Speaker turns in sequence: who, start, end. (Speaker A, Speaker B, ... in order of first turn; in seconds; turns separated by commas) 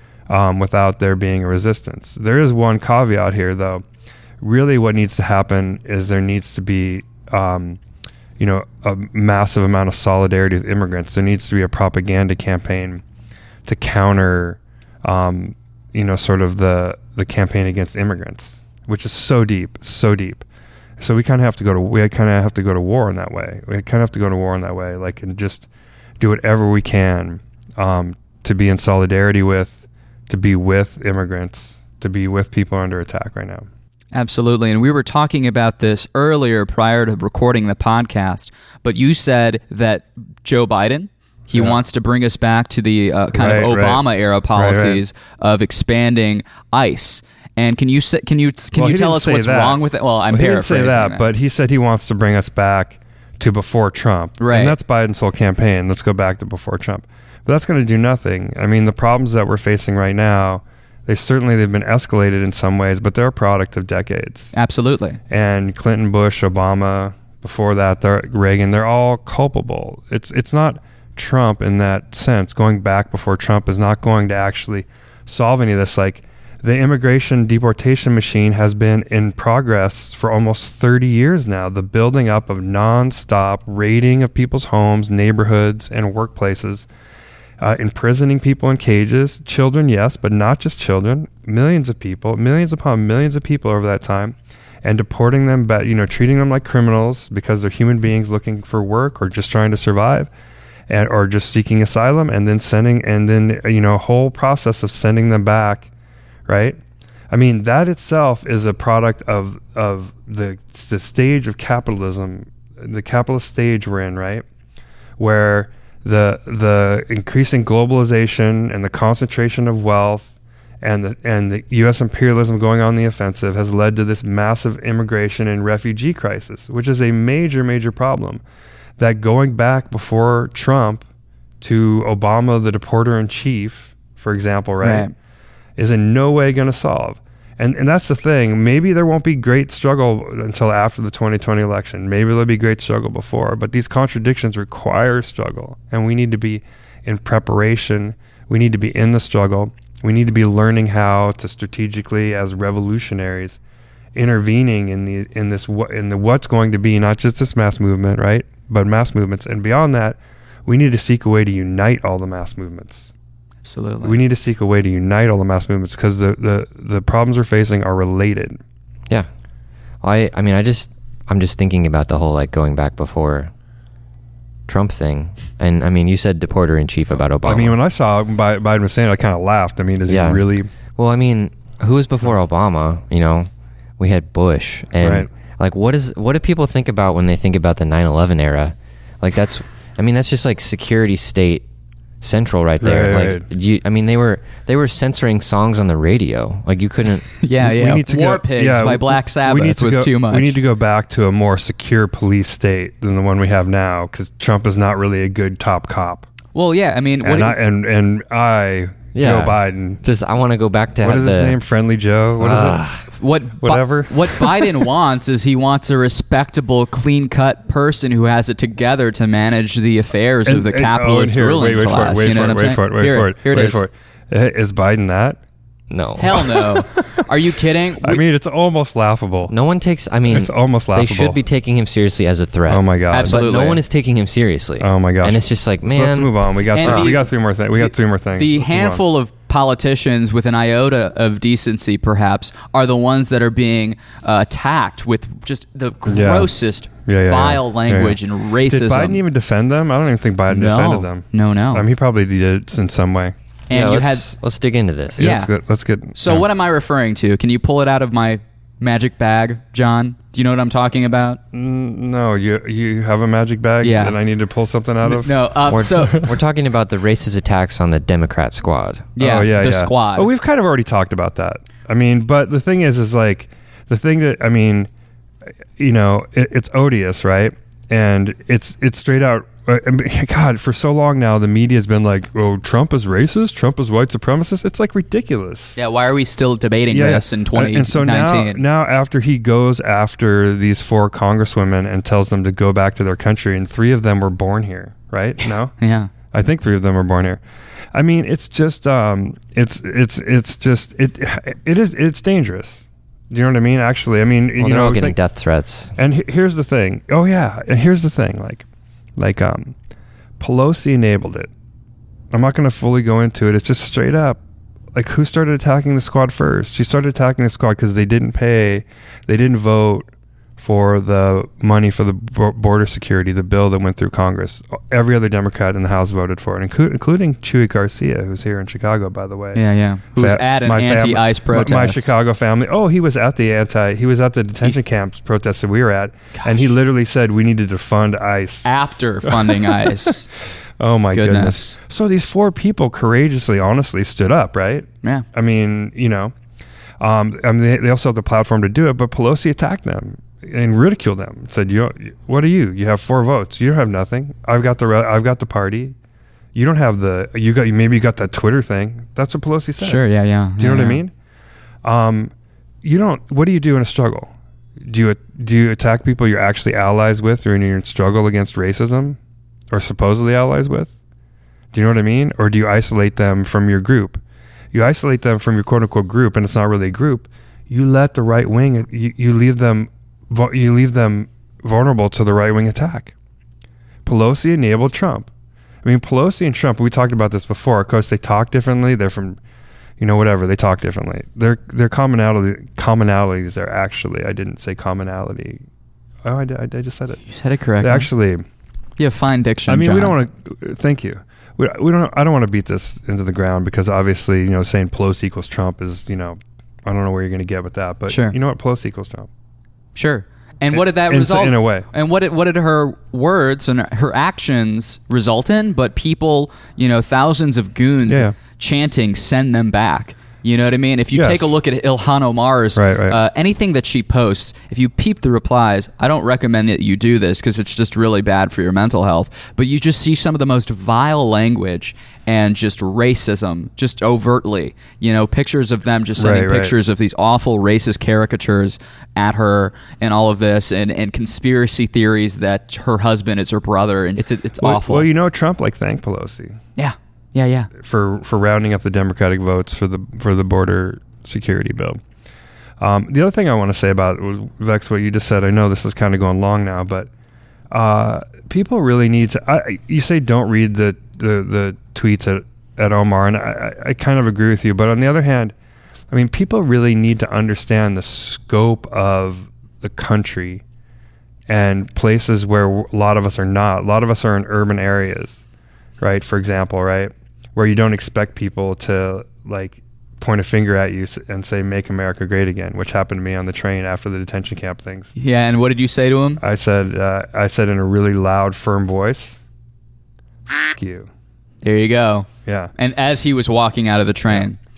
Speaker A: 0.3-3.8, Speaker A: 4.4-7.8, Speaker A: 8.4-13.0, Speaker A: 13.6-20.4, Speaker A: 21.0-25.7, Speaker A: 26.2-33.7, Speaker B: 34.1-51.3, Speaker A: 41.5-41.8, Speaker A: 43.3-44.0, Speaker A: 44.5-45.0, Speaker A: 48.7-49.8, Speaker A: 50.3-64.5, Speaker B: 54.4-54.7, Speaker B: 64.5-65.2, Speaker A: 65.3-86.9, Speaker A: 87.6-100.3, Speaker A: 100.9-105.9, Speaker A: 106.5-106.8, Speaker A: 107.3-114.4, Speaker A: 115.2-128.4, Speaker A: 129.0-131.0, Speaker A: 131.6-135.1, Speaker B: 134.8-135.1, Speaker A: 135.8-153.6, Speaker A: 154.1-163.1, Speaker B: 163.6-164.2, Speaker A: 164.0-168.6, Speaker C: 170.0-173.5, Speaker C: 174.7-177.8, Speaker A: 177.4-180.7, Speaker C: 180.1-180.4, Speaker C: 180.9-191.6, Speaker A: 185.0-185.3, Speaker C: 192.2-197.3, Speaker A: 192.8-193.4, Speaker B: 197.4-200.6, Speaker A: 197.6-206.3, Speaker B: 206.5-207.6, Speaker A: 207.2-210.0, Speaker C: 209.1-211.6, Speaker A: 211.0-212.8, Speaker C: 212.4-213.0, Speaker B: 213.2-223.8, Speaker A: 213.6-214.7, Speaker A: 220.4-225.4, Speaker C: 225.9-226.5, Speaker B: 226.2-228.2, Speaker A: 228.0-229.5, Speaker C: 229.5-237.1, Speaker A: 230.3-231.4, Speaker A: 232.7-233.4, Speaker B: 233.1-233.8, Speaker A: 234.8-239.0, Speaker B: 236.7-249.2, Speaker A: 246.1-246.5, Speaker A: 247.1-253.3, Speaker B: 250.5-251.8, Speaker B: 253.7-254.2, Speaker C: 253.7-255.2, Speaker A: 255.2-256.4, Speaker B: 255.2-255.5, Speaker B: 256.1-261.4, Speaker A: 261.5-265.3, Speaker B: 263.8-264.2, Speaker B: 265.0-266.2, Speaker C: 265.7-269.1, Speaker B: 269.2-270.3, Speaker A: 269.2-274.9, Speaker A: 275.8-285.8, Speaker B: 285.8-288.6, Speaker A: 286.9-295.7, Speaker B: 295.8-296.1, Speaker A: 296.3-297.4, Speaker A: 297.9-305.2, Speaker C: 304.6-305.9, Speaker A: 305.9-308.6, Speaker A: 309.2-309.7, Speaker A: 310.4-311.5, Speaker A: 312.3-314.4, Speaker A: 314.9-329.6, Speaker B: 329.5-332.1, Speaker A: 330.1-338.7, Speaker B: 336.4-336.7, Speaker B: 338.6-340.3, Speaker A: 339.2-340.1, Speaker A: 340.8-346.3, Speaker B: 341.1-341.8, Speaker A: 347.0-355.9, Speaker A: 356.5-360.0, Speaker B: 359.8-361.0, Speaker A: 360.6-361.1, Speaker A: 361.8-362.3, Speaker A: 362.8-364.3, Speaker A: 364.8-369.2, Speaker A: 369.7-370.9, Speaker A: 371.7-374.2, Speaker A: 374.7-383.1, Speaker A: 384.1-385.3, Speaker A: 385.8-389.4, Speaker A: 390.0-395.6, Speaker A: 396.2-397.2, Speaker B: 397.2-398.1, Speaker A: 397.8-398.4, Speaker B: 399.0-400.2, Speaker A: 399.7-409.3, Speaker B: 408.1-408.4, Speaker B: 409.9-445.1, Speaker A: 410.7-411.9, Speaker A: 418.1-418.4, Speaker A: 421.1-421.5, Speaker A: 422.8-423.2, Speaker A: 436.2-436.7, Speaker A: 444.6-446.6, Speaker B: 446.8-447.7, Speaker A: 447.8-452.0, Speaker A: 452.8-457.1, Speaker A: 457.7-465.5, Speaker A: 466.1-470.6, Speaker A: 471.5-475.4, Speaker A: 476.0-485.1, Speaker B: 485.1-486.4, Speaker A: 486.4-489.4, Speaker A: 490.5-491.1, Speaker B: 491.6-494.6, Speaker A: 492.4-492.7